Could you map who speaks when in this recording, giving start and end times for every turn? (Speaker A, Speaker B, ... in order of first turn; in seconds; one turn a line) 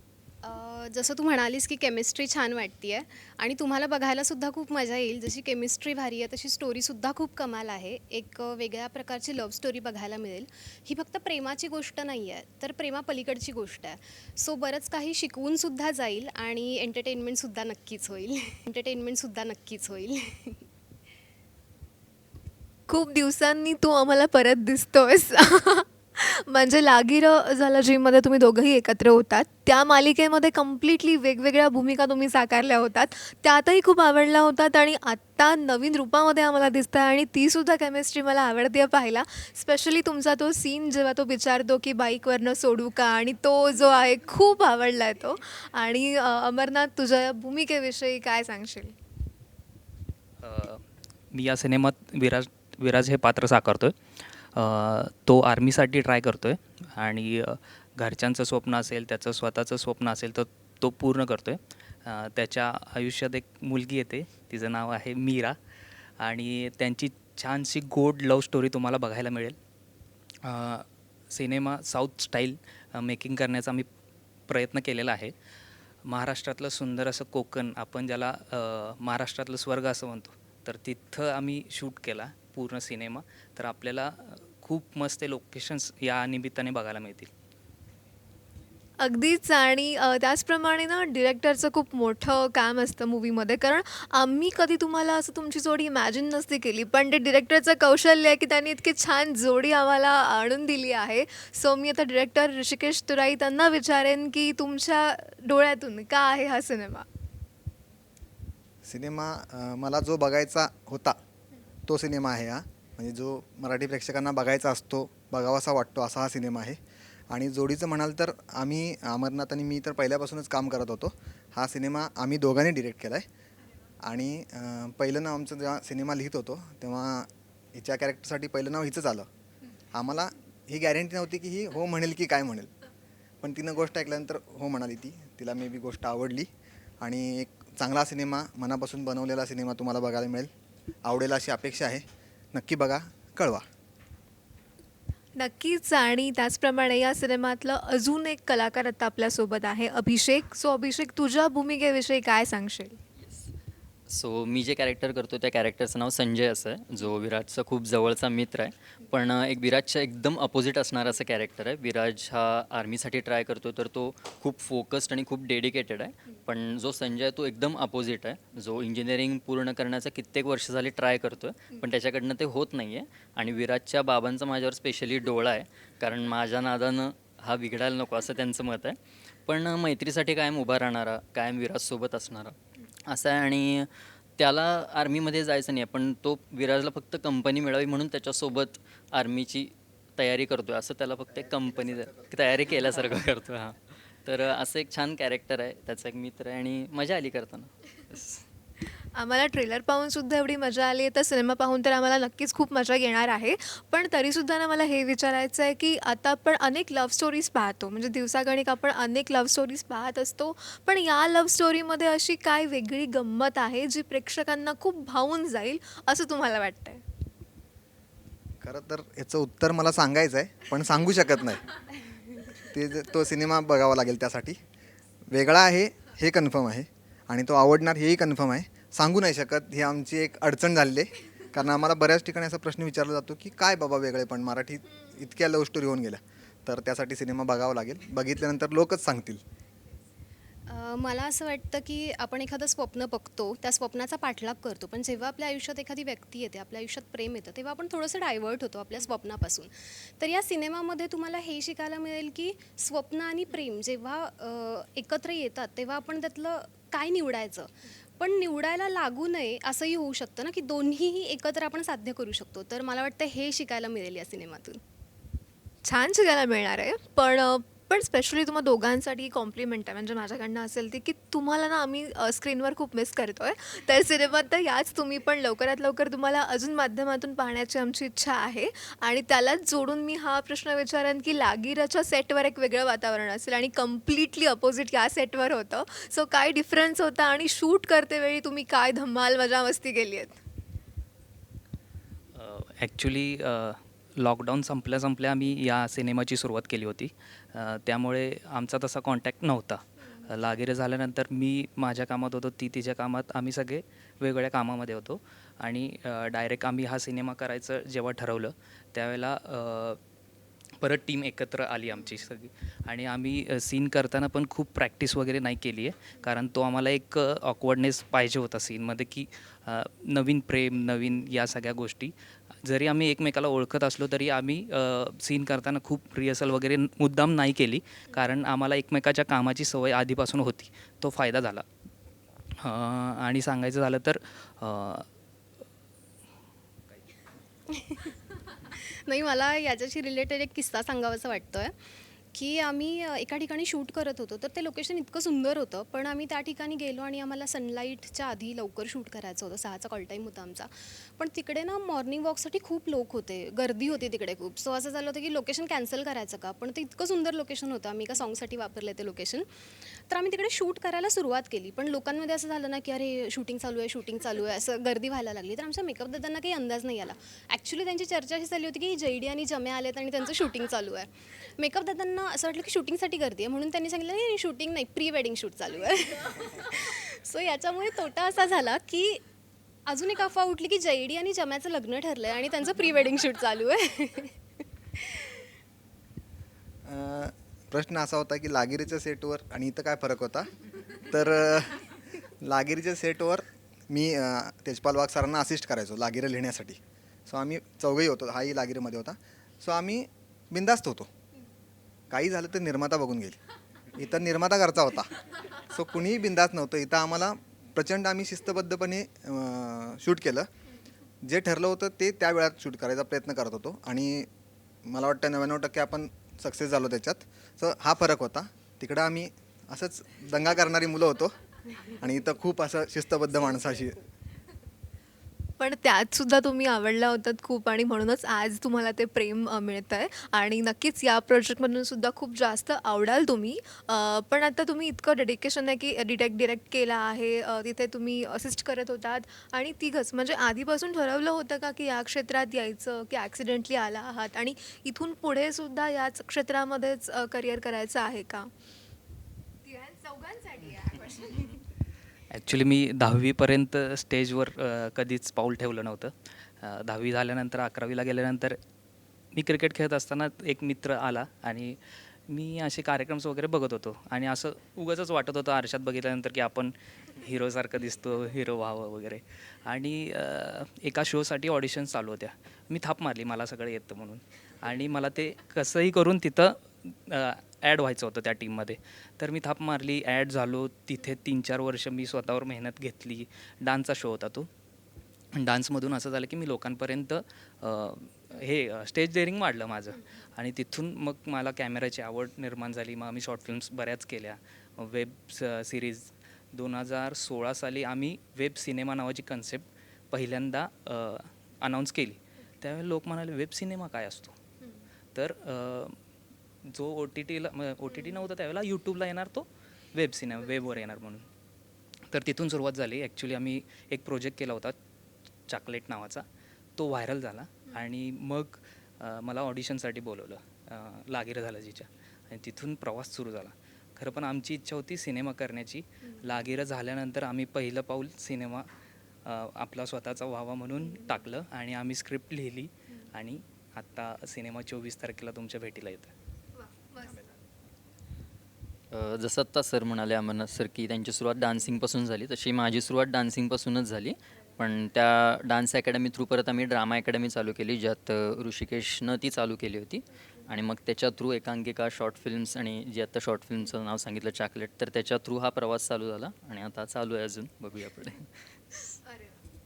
Speaker A: 0.4-20.7
Speaker B: 22.9-49.0
Speaker C: 50.4-54.0
Speaker C: 54.5-65.6
Speaker C: 66.2-69.6
Speaker C: 70.4-73.9
Speaker C: 74.5-75.3
Speaker C: 76.0-87.3
Speaker B: 89.0-107.1
Speaker D: 108.8-111.2
Speaker D: 111.9-116.8
Speaker D: 117.3-123.2
Speaker D: 124.0-129.3
Speaker D: 129.9-132.7
Speaker D: 133.4-136.5
Speaker D: 137.0-140.5
Speaker D: 141.1-143.7
Speaker B: 145.4-153.0
Speaker E: 153.2-153.5
Speaker E: 154.1-198.4
Speaker D: 191.3-192.4
Speaker B: 198.9-217.0
Speaker D: 218.6-221.8
Speaker D: 222.5-224.6
Speaker D: 225.3-239.4
Speaker A: 240.7-264.8
Speaker B: 265.8-290.4
Speaker C: 292.3-310.0
Speaker C: 310.8-331.6
Speaker C: 332.6-335.1
Speaker A: 337.7-338.1
Speaker A: 338.7-341.8
Speaker A: 342.3-359.5
Speaker A: 360.1-379.2
Speaker A: 379.9-384.4
Speaker A: 384.9-385.5
Speaker D: 386.8-390.5
Speaker D: 391.1-401.1
Speaker D: 402.1-403.4
Speaker D: 403.9-410.5
Speaker D: 411.2-414.3
Speaker D: 414.8-421.4
Speaker D: 422.0-423.9
Speaker A: 423.4-424.0
Speaker B: 425.6-448.5
Speaker B: 449.6-451.6
Speaker C: 452.3-458.6
Speaker C: 459.3-484.5
Speaker C: 485.3-504.4
Speaker C: 505.1-505.9
Speaker C: 506.6-511.2
Speaker C: 512.1-514.8
Speaker C: 515.5-516.2
Speaker C: 516.8-528.7
Speaker C: 529.2-536.1
Speaker B: 536.6-537.3
Speaker E: 538.9-558.8